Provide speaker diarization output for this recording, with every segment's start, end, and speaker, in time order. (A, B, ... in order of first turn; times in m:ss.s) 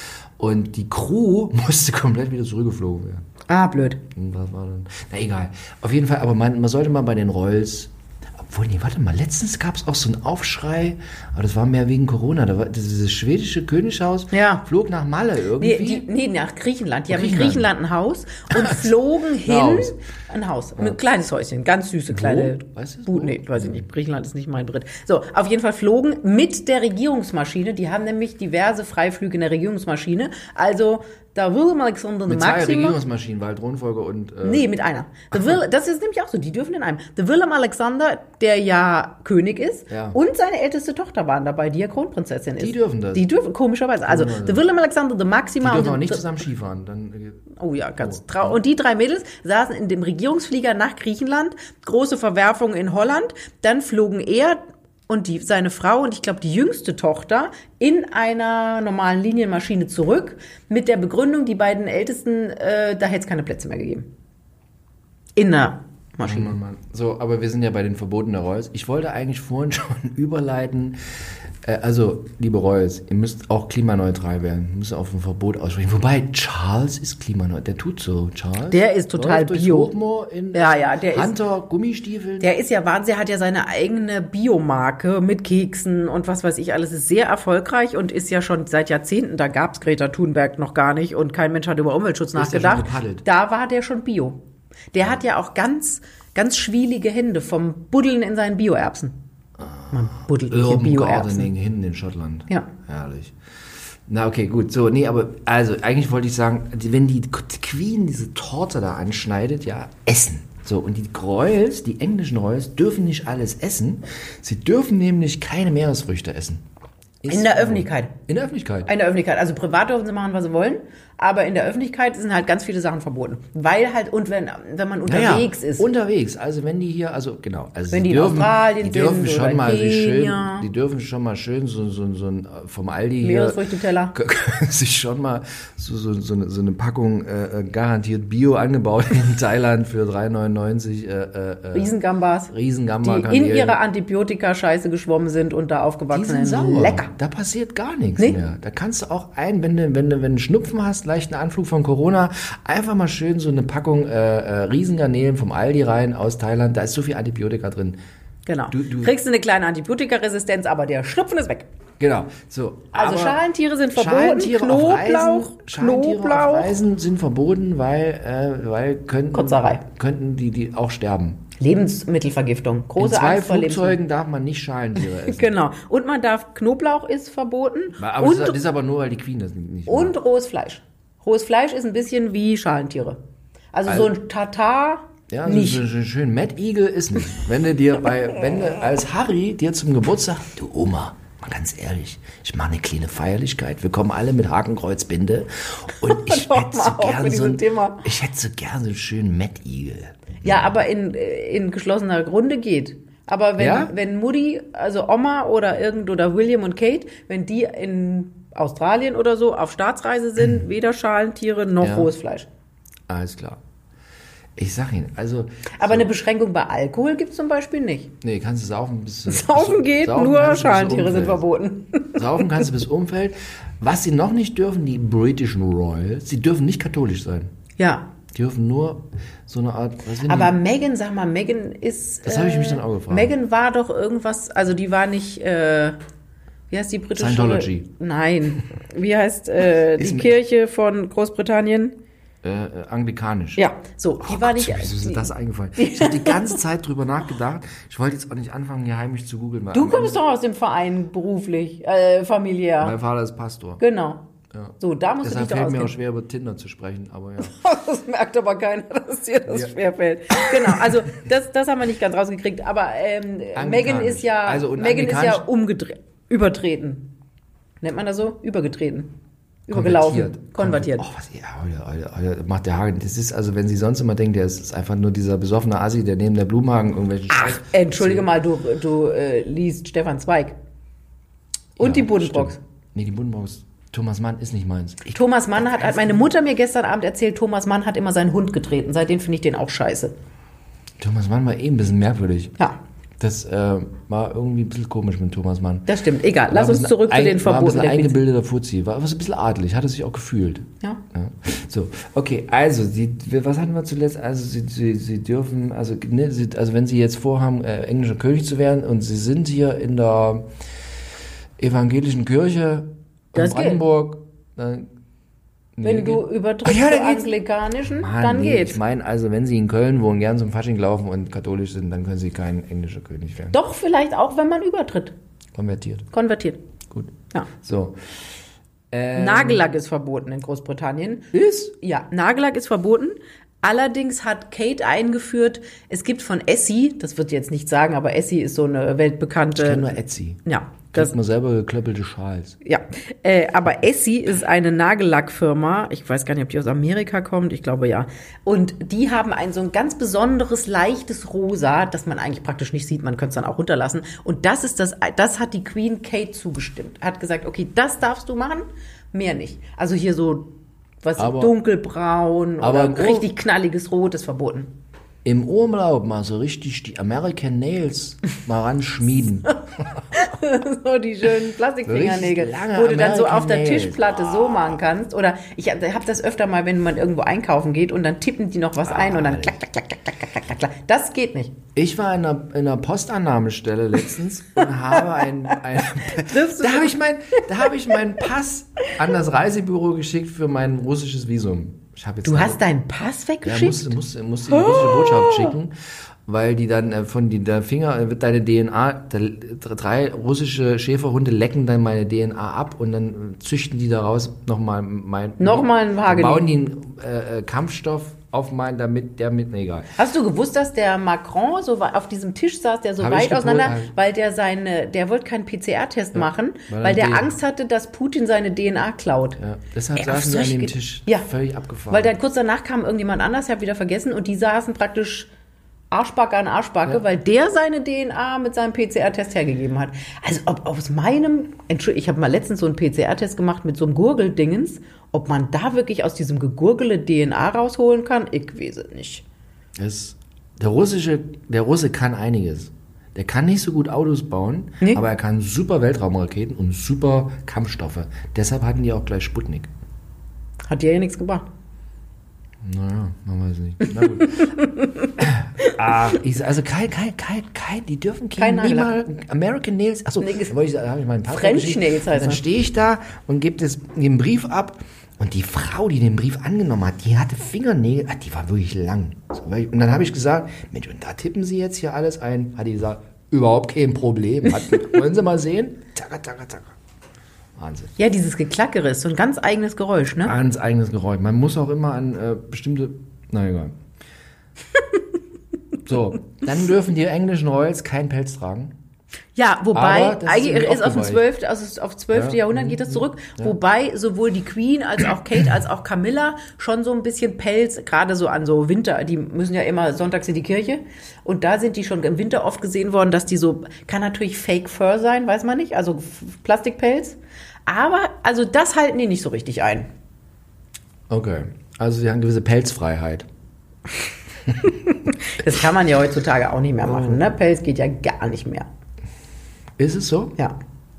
0:00.4-0:03.2 A
0:03.5-0:04.0 B
0:04.2-0:16.1 A
0:14.3-0:14.6 B
0:15.6-0:33.0 B
0:17.1-0:17.7 A
0:18.5-0:18.9 A
0:19.4-0:20.0 A
0:22.1-0:23.9 A
0:32.3-0:34.7 A
0:34.4-0:46.3 B
0:39.9-0:40.2 A
0:42.6-0:43.3 A
0:44.0-0:44.6 A
0:45.6-0:47.5 A
0:47.6-1:04.1 B
0:48.0-0:48.6 A
1:05.4-1:06.6 B
1:06.2-1:11.0 A
1:11.6-1:22.5 A
1:18.7-1:19.9 B
1:20.5-1:21.3 B
1:22.4-1:34.4 B
1:32.4-1:33.2 A
1:34.9-1:39.2 B
1:39.6-1:43.4 A
1:39.9-1:41.5 B
1:44.1-1:56.6 A
1:57.2-1:58.9 A
1:57.3-1:58.1 B
1:58.9-2:05.9 B
2:05.1-2:13.6 A
2:07.9-2:10.7 B
2:13.2-2:14.2 B
2:14.1-2:21.9 A
2:21.7-2:22.5 B
2:22.5-2:23.8 A
2:23.0-2:27.1 B
2:26.1-2:38.0 A
2:38.5-2:41.7 B
2:38.7-2:39.1 A
2:42.0-2:43.4 A
2:42.9-2:46.7 B
2:44.0-2:51.4 A
2:49.3-2:49.8 B
2:51.6-2:54.0 B
2:53.0-2:55.5 A
2:55.0-2:58.6 B
2:58.0-3:00.1 A
2:59.9-3:03.2 B
3:03.7-3:05.8 B
3:03.9-3:04.1 A
3:05.3-3:20.7 A
3:16.0-3:18.1 B
3:20.4-3:32.5 B
3:23.6-3:23.9 A
3:31.8-3:32.1 A
3:33.1-3:33.6 A
3:34.6-3:36.1 A
3:35.8-3:38.1 B
3:38.2-3:41.4 A
3:39.3-3:42.4 B
3:42.2-3:47.5 A
3:47.8-3:48.1 B
3:48.3-3:50.6 A
3:50.3-3:56.0 B
3:52.2-3:53.4 A
3:56.7-4:02.0 B
3:57.2-3:57.9 A
4:00.0-4:00.4 A
4:02.4-4:03.6 A
4:03.6-4:06.6 B
4:04.2-4:10.2 A
4:09.7-4:13.0 B
4:12.8-4:13.8 A
4:13.8-4:14.2 B
4:14.5-4:17.6 A
4:14.8-4:15.9 B
4:17.4-4:27.1 B
4:19.5-4:19.7 A
4:20.4-4:20.9 A
4:23.6-4:25.4 A
4:27.8-4:29.1 B
4:29.7-4:31.1 B
4:29.7-4:38.3 A
4:37.3-4:40.6 B
4:41.8-4:46.3 A
4:41.8-4:42.6 B
4:45.1-4:50.1 B
4:51.0-4:52.5 A
4:53.2-4:55.9 A
4:55.9-4:58.2 B
4:56.5-5:10.5 A
5:11.6-5:14.9 A
5:13.4-5:13.8 B
5:15.8-5:23.6 A
5:15.8-5:18.8 B
5:23.5-5:25.2 B
5:25.5-5:26.1 A
5:26.1-5:26.6 B
5:26.9-5:28.0 A
5:28.9-5:29.6 A
5:29.2-5:41.1 B
5:31.3-5:31.7 A
5:39.6-5:40.4 A
5:40.9-5:42.6 A
5:42.6-6:04.7 B
6:01.2-6:01.6 A
6:02.6-6:03.3 A
6:05.2-6:09.9 A
6:10.1-6:21.6 B
6:11.8-6:14.8 A
6:18.8-6:19.6 A
6:21.8-6:32.6 A
6:26.2-6:27.4 B
6:32.2-6:33.9 B
6:33.4-6:35.7 A
6:34.5-6:35.5 B
6:36.3-6:50.0 A
6:45.4-6:46.5 B
6:50.0-6:59.4 B
6:53.0-6:53.9 A
6:56.2-6:57.4 A
6:59.4-7:02.1 A
7:00.0-7:01.3 B
7:01.9-7:05.3 B
7:05.9-7:19.2 B
7:19.8-7:29.7 A
7:30.7-7:31.5 B
7:32.6-7:34.6 A
7:34.2-7:35.8 B
7:35.2-7:56.7 A
7:38.4-7:39.0 B
7:40.2-7:40.5 B
7:41.3-7:42.4 B
7:57.6-7:58.0 A
7:58.0-8:00.3 B
8:00.2-8:03.8 A
8:05.8-8:08.8 A
8:09.4-8:29.9 B
8:09.7-8:11.2 A
8:12.1-8:13.6 A
8:31.1-8:33.3 A
8:34.5-8:34.8 A
8:34.6-8:38.7 B
8:36.9-8:37.2 A
8:39.8-8:40.4 A